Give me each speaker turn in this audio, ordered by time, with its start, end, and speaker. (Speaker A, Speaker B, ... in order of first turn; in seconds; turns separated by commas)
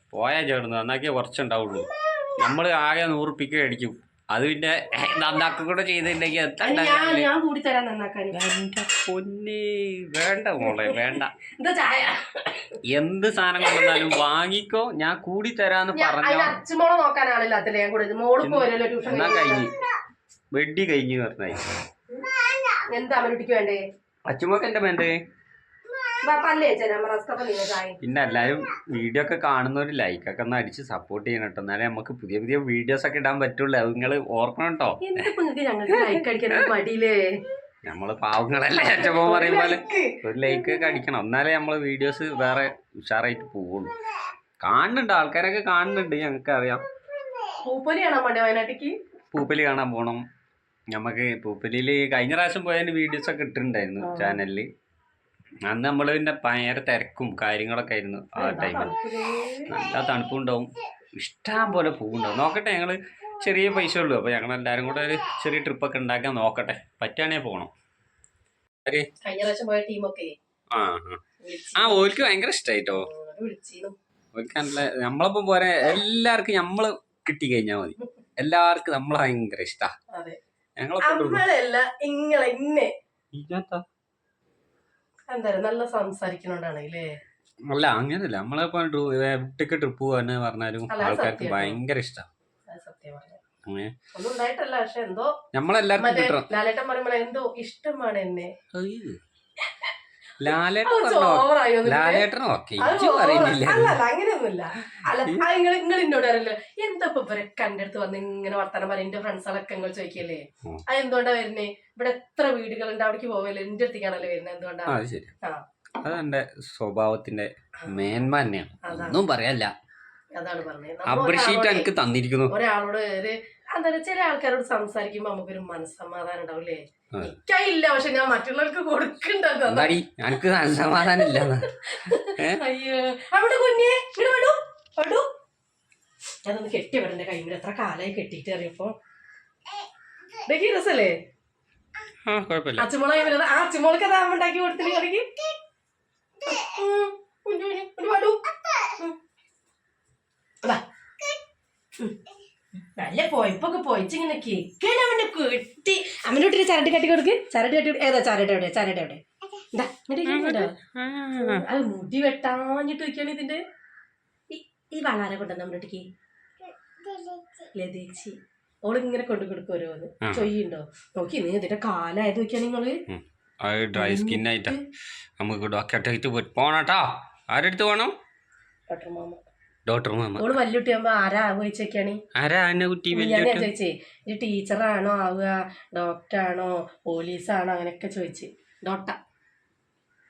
Speaker A: 0.1-7.3, Speaker B: 6.6-8.3, Speaker A: 8.3-11.3, Speaker B: 10.6-12.8, Speaker A: 12.8-16.6, Speaker B: 13.8-14.0, Speaker B: 15.9-19.7, Speaker A: 18.4-19.7, Speaker A: 20.5-21.6, Speaker B: 22.2-23.8, Speaker A: 24.3-25.2, Speaker B: 26.2-28.0, Speaker A: 28.0-35.3, Speaker B: 35.0-37.2, Speaker A: 35.9-36.6, Speaker A: 37.9-43.9, Speaker B: 38.7-40.8, Speaker A: 44.6-46.8, Speaker B: 47.6-48.9, Speaker A: 49.3-50.2, Speaker A: 50.9-54.6, Speaker B: 54.0-54.4, Speaker A: 55.7-59.0, Speaker B: 58.4-59.7, Speaker A: 59.7-67.7, Speaker B: 69.2-70.3, Speaker A: 70.7-71.2, Speaker B: 71.4-72.1, Speaker A: 71.8-73.1, Speaker B: 72.9-73.9, Speaker A: 74.3-79.9, Speaker A: 80.8-81.4, Speaker B: 81.0-82.9, Speaker A: 83.3-83.8, Speaker B: 85.3-87.1, Speaker A: 87.7-92.3, Speaker B: 90.9-91.8, Speaker B: 92.7-93.4, Speaker A: 93.7-93.9, Speaker B: 94.1-95.3, Speaker A: 95.5-96.5, Speaker B: 96.0-98.5, Speaker A: 98.7-99.2, Speaker A: 100.4-104.0, Speaker B: 100.8-102.2, Speaker B: 102.8-115.6, Speaker A: 104.9-105.4, Speaker A: 114.9-115.3, Speaker A: 116.0-119.7, Speaker B: 118.8-119.2, Speaker B: 120.3-121.9, Speaker A: 121.0-122.5, Speaker B: 122.5-130.0, Speaker A: 129.7-132.6, Speaker B: 131.1-135.2, Speaker B: 136.4-138.9, Speaker B: 140.4-141.1, Speaker A: 142.2-142.9, Speaker B: 142.8-145.5, Speaker B: 146.4-149.1, Speaker B: 153.0-159.2, Speaker B: 159.7-160.7, Speaker A: 160.2-161.7, Speaker B: 161.4-163.6, Speaker B: 164.5-166.0, Speaker B: 167.7-173.0, Speaker A: 170.2-170.5, Speaker A: 173.1-174.8, Speaker B: 173.9-174.8, Speaker A: 175.4-178.1, Speaker B: 178.9-179.4, Speaker A: 179.8-180.5, Speaker B: 180.4-182.2, Speaker A: 182.3-183.7, Speaker B: 183.1-189.2